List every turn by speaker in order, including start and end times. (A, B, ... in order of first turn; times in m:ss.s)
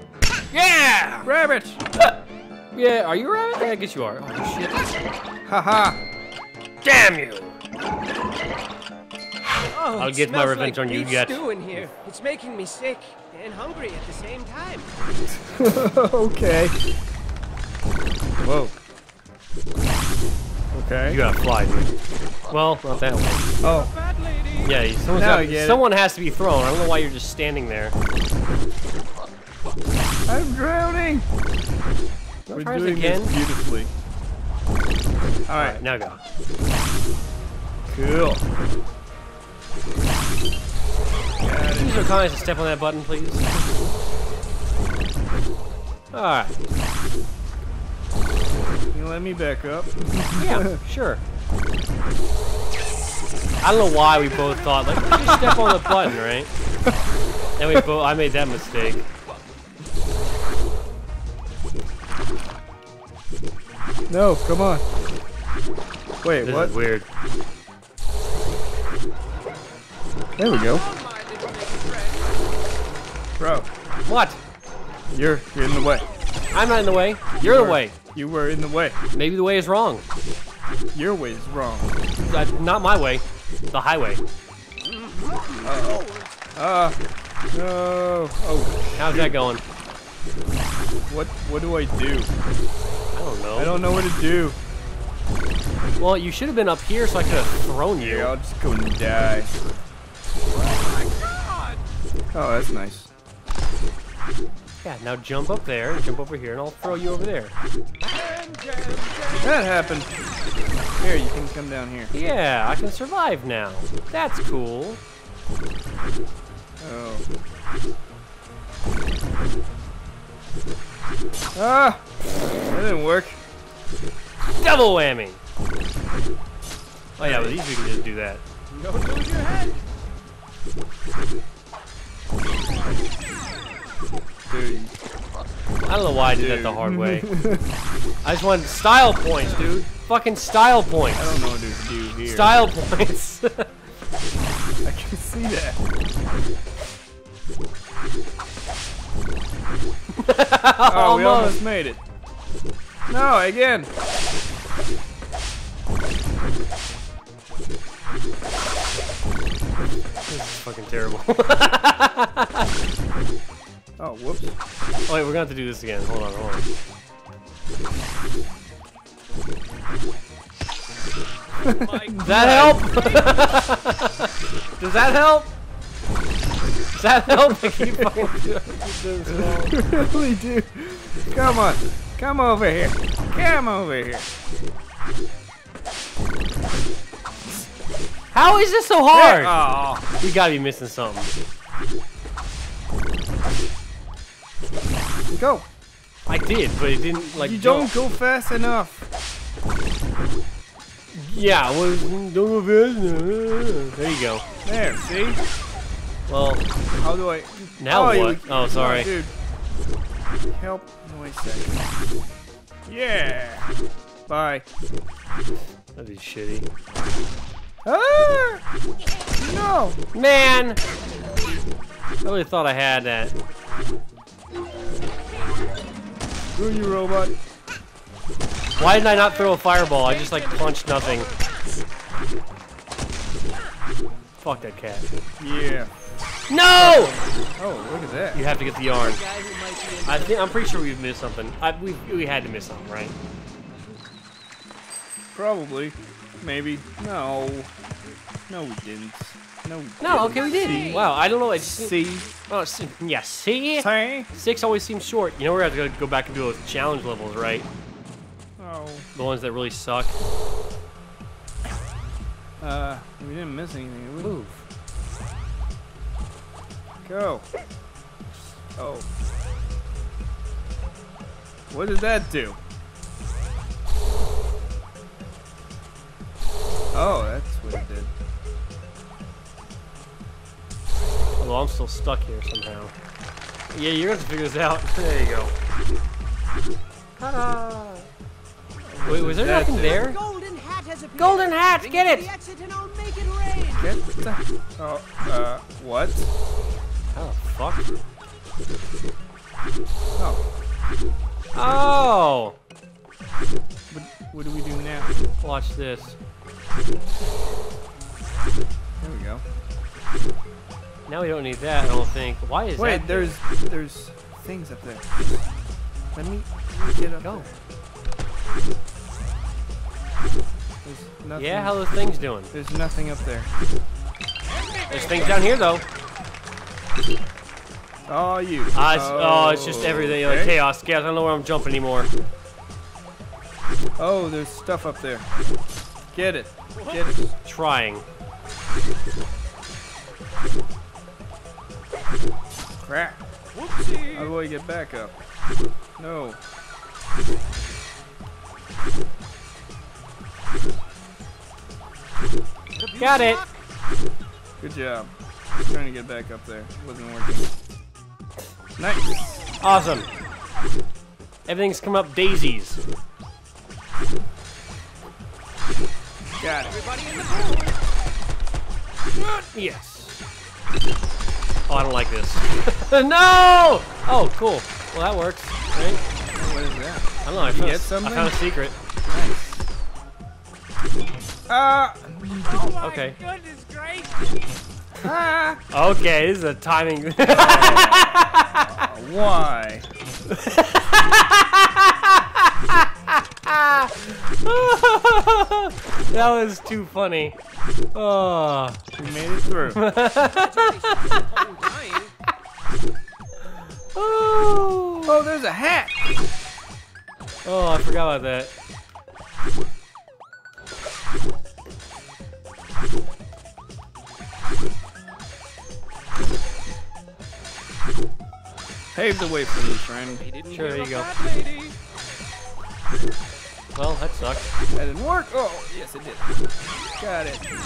0:00.5-0:01.3 A
0:01.2-0:01.8 B
0:02.7-0:04.9 A
0:05.5-0:06.0 B
0:06.8-0:07.6 A
0:09.7-0:14.9 C
0:10.0-0:11.4 A
0:15.4-0:16.8 B
0:18.4-0:18.8 B
0:20.7-0:21.2 B
0:21.0-0:21.9 A
0:22.5-0:23.6 A
0:23.6-0:23.9 B
0:23.6-0:24.7 C
0:24.6-0:28.0 A
0:25.1-0:25.8 B
0:30.3-0:31.2 B
0:32.5-0:33.3 A
0:32.5-0:33.9 B
0:35.5-0:35.8 B
0:35.5-0:36.2 A
0:37.9-0:38.4 B
0:41.4-0:42.1 B
0:41.7-0:43.6 A
0:46.1-0:46.6 A
0:48.9-0:50.8 B
0:50.3-0:51.2 A
0:53.6-0:56.5 A
0:54.0-0:55.6 C
0:55.2-0:56.1 B
0:57.6-0:59.0 A
1:04.1-1:04.8 B
1:06.2-1:06.7 B
1:06.4-1:07.0 A
1:10.4-1:10.8 B
1:10.4-1:12.4 C
1:13.4-1:13.7 B
1:14.0-1:14.4 A
1:15.1-1:16.1 B
1:16.5-1:17.9 A
1:17.4-1:19.0 B
1:19.1-1:20.0 A
1:20.9-1:22.0 B
1:22.2-1:24.2 A
1:24.8-1:26.4 C
1:25.6-1:27.0 B
1:27.5-1:29.4 B
1:29.0-1:29.6 A
1:31.1-1:32.3 B
1:33.1-1:33.8 A
1:33.6-1:34.6 B
1:36.0-1:38.3 A
1:38.0-1:39.5 B
1:40.5-1:41.8 C
1:42.3-1:43.1 B
1:44.8-1:47.5 A
1:48.0-1:49.6 C
1:49.4-1:50.1 B
1:51.0-1:52.1 B
1:52.1-1:55.0 A
1:56.8-1:57.2 B
2:01.5-2:02.0 B
2:02.6-2:03.4 B
2:04.6-2:05.4 A
2:07.2-2:08.4 A
2:07.2-2:07.6 B
2:08.7-2:09.8 C
2:14.5-2:14.9 B
2:15.8-2:17.3 A
2:16.3-2:17.6 B
2:18.2-2:21.4 A
2:21.1-2:22.6 B
2:22.1-2:23.7 A
2:24.8-2:25.8 B
2:30.2-2:31.6 A
2:30.8-2:32.0 B
2:33.1-2:33.9 B
2:40.3-2:42.7 A
2:44.0-2:44.5 B
2:45.1-2:46.6 A
2:51.6-2:52.9 B
2:51.6-2:53.6 C
2:52.2-2:55.5 A
2:57.0-2:59.8 A
2:57.4-2:58.3 B
2:59.2-3:04.3 B
3:08.3-3:09.6 A
3:09.1-3:10.0 B
3:10.2-3:11.3 A
3:15.3-3:15.6 B
3:16.3-3:17.9 A
3:17.3-3:19.1 B
3:21.1-3:24.4 A
3:24.6-3:25.4 B
3:26.3-3:26.6 A
3:27.0-3:29.3 B
3:27.8-3:29.1 A
3:30.5-3:31.8 B
3:32.8-3:33.7 B
3:34.3-3:34.6 B
3:36.0-3:36.6 A
3:37.8-3:38.6 B
3:39.4-3:40.0 B
3:40.1-3:40.8 A
3:42.2-3:43.3 A
3:46.5-3:47.4 B
3:48.8-3:51.3 A
3:48.9-3:51.6 C
3:54.4-3:55.0 A
3:55.4-3:55.9 B
3:56.5-3:57.2 A
3:56.7-3:58.4 B
3:58.3-3:59.2 A
3:58.9-4:00.7 C
4:00.0-4:03.1 A
4:05.3-4:07.7 B
4:08.5-4:11.0 B
4:10.0-4:17.7 A
4:10.1-4:11.1 C
4:11.6-4:12.3 B
4:13.8-4:14.3 B
4:18.6-4:19.0 B
4:19.1-4:20.2 A
4:22.6-4:24.4 B
4:24.2-4:24.6 A
4:27.0-4:27.4 B
4:28.7-4:29.1 B
4:31.7-4:32.6 B
4:36.9-4:38.1 B
4:41.4-4:42.9 A
4:43.7-4:45.5 A
4:47.2-4:48.1 A
4:48.9-4:50.0 B
4:49.0-4:50.2 A
4:49.5-4:53.9 C
4:51.2-4:52.3 A
4:53.8-4:56.3 B
4:57.1-4:57.8 A
5:01.5-5:02.6 A
5:03.9-5:05.1 B
5:05.4-5:06.1 A
5:09.0-5:09.4 B
5:11.1-5:13.4 A
5:12.8-5:15.4 B
5:16.1-5:17.5 B
5:20.8-5:21.8 B
5:21.3-5:22.5 A
5:22.5-5:23.5 B
5:24.5-5:25.6 C
5:24.9-5:25.8 A
5:28.1-5:30.5 B
5:28.7-5:32.1 A
5:34.0-5:35.2 B
5:36.1-5:37.3 B
5:36.7-5:37.1 C
5:37.4-5:38.0 A
5:42.9-5:43.2 B
5:43.5-5:44.3 C
5:44.1-5:45.1 B
5:46.0-5:46.4 B
5:52.7-5:53.6 C
5:53.0-5:53.4 A
5:54.6-5:55.1 B
5:55.7-5:57.5 B
5:58.8-5:59.5 B
5:59.6-6:00.1 A
6:01.4-6:02.8 A
6:06.4-6:06.8 B
6:06.6-6:07.8 C
6:09.5-6:10.2 A
6:11.7-6:16.0 A
6:16.3-6:18.4 B
6:17.2-6:18.7 A
6:19.0-6:19.6 B
6:21.5-6:22.7 B
6:22.4-6:24.6 C
6:22.8-6:23.2 A
6:25.0-6:25.6 B
6:25.7-6:28.8 A
6:27.2-6:29.9 B
6:30.3-6:37.4 A
6:37.9-6:38.8 A
6:38.9-6:39.8 B
6:39.7-6:41.4 A
6:40.2-6:42.1 C
6:43.9-6:45.2 A
6:45.0-6:45.9 B
6:47.4-6:48.5 A
6:58.9-7:00.2 B
7:00.2-7:01.8 C
7:00.5-7:01.1 A
7:03.7-7:04.5 A
7:04.7-7:06.2 B
7:07.0-7:07.4 B